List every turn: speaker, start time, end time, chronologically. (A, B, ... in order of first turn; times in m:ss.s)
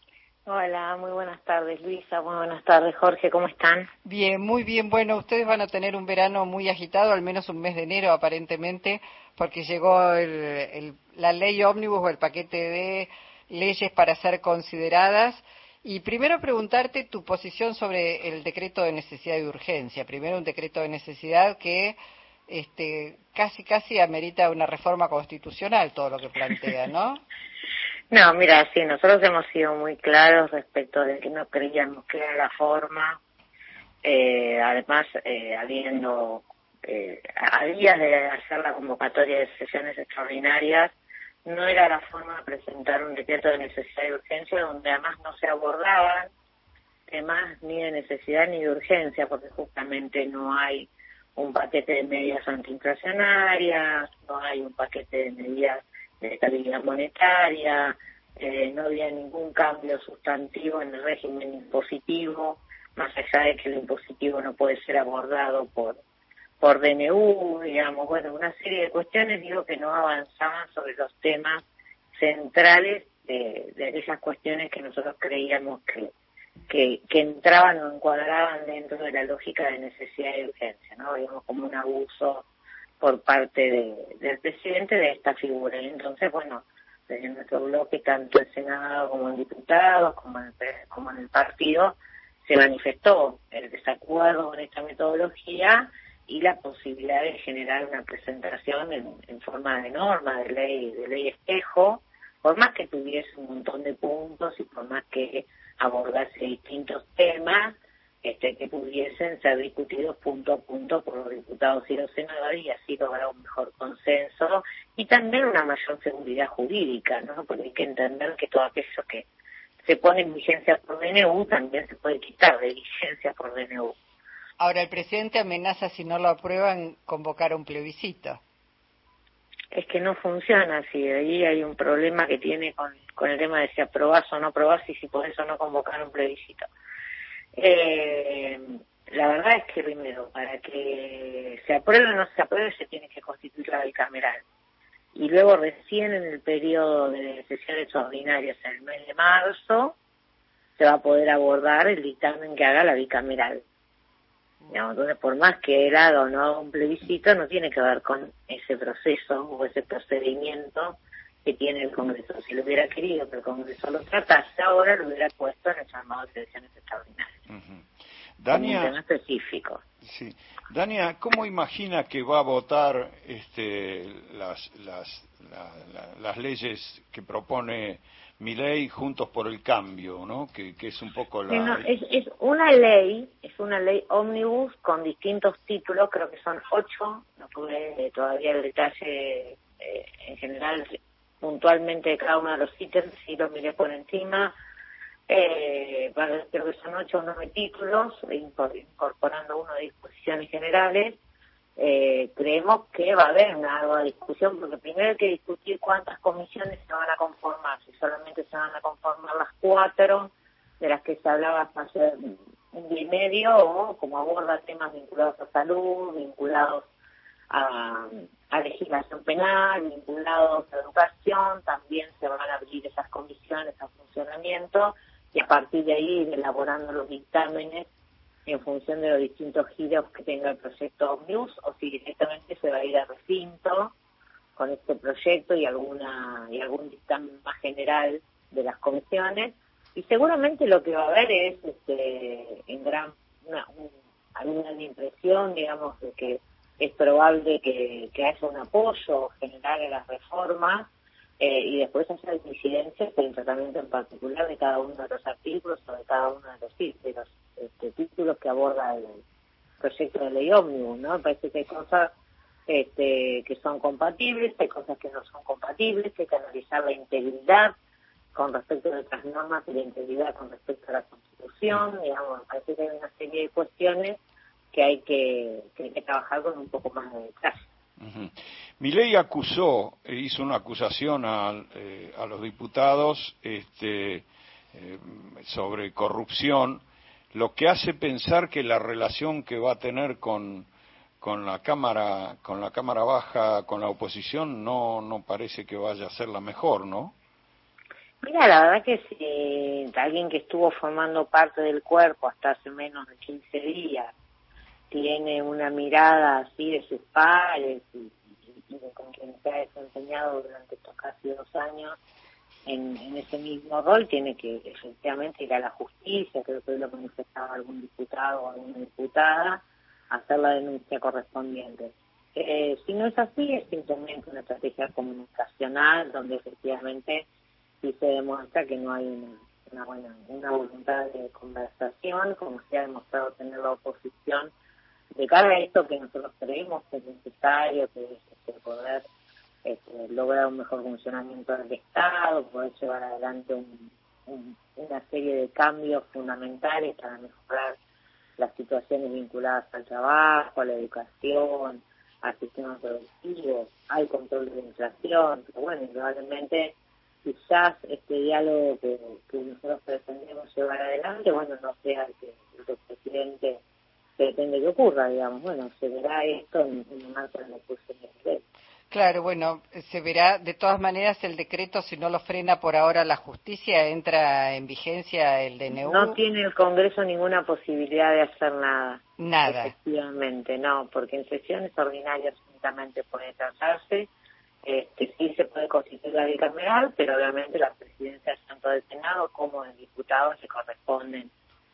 0:00.5-0:03.9 A
0:04.0-0:22.0 B
0:22.5-0:27.2 B
0:28.1-0:33.2 A
0:34.0-0:40.9 A
0:41.4-0:46.3 A
0:47.1-1:06.0 A
1:06.6-1:11.6 A
1:12.1-1:16.1 A
1:16.7-1:22.4 A
1:23.0-1:59.3 A
1:59.8-2:03.9 A
2:04.6-2:08.4 B
2:09.7-2:16.6 A
2:17.6-2:24.4 A
2:25.1-2:30.0 A
2:30.8-2:33.6 A
2:34.7-2:47.3 A
2:47.5-2:47.9 C
2:48.4-2:48.9 C
2:48.5-2:49.8 A
2:50.0-3:01.8 C
3:01.5-3:14.5 A
3:15.3-3:21.2 A
3:21.8-3:36.8 A
3:37.5-3:47.9 A
3:48.4-3:53.9 A
3:54.6-4:19.2 A
4:19.8-4:22.1 A
4:22.7-4:27.7 A
4:28.3-4:34.2 A
4:34.7-4:37.6 A
4:38.0-4:57.1 C
4:58.2-5:04.1 A
5:04.9-5:12.0 A
5:12.6-5:27.2 A
5:27.8-5:34.5 A
5:35.1-5:39.0 A
5:39.6-5:47.8 A
5:48.4-6:03.6 A
6:04.2-6:08.4 A
6:08.9-6:16.2 B
6:15.7-6:24.1 A
6:19.2-6:19.7 B
6:24.6-6:31.3 A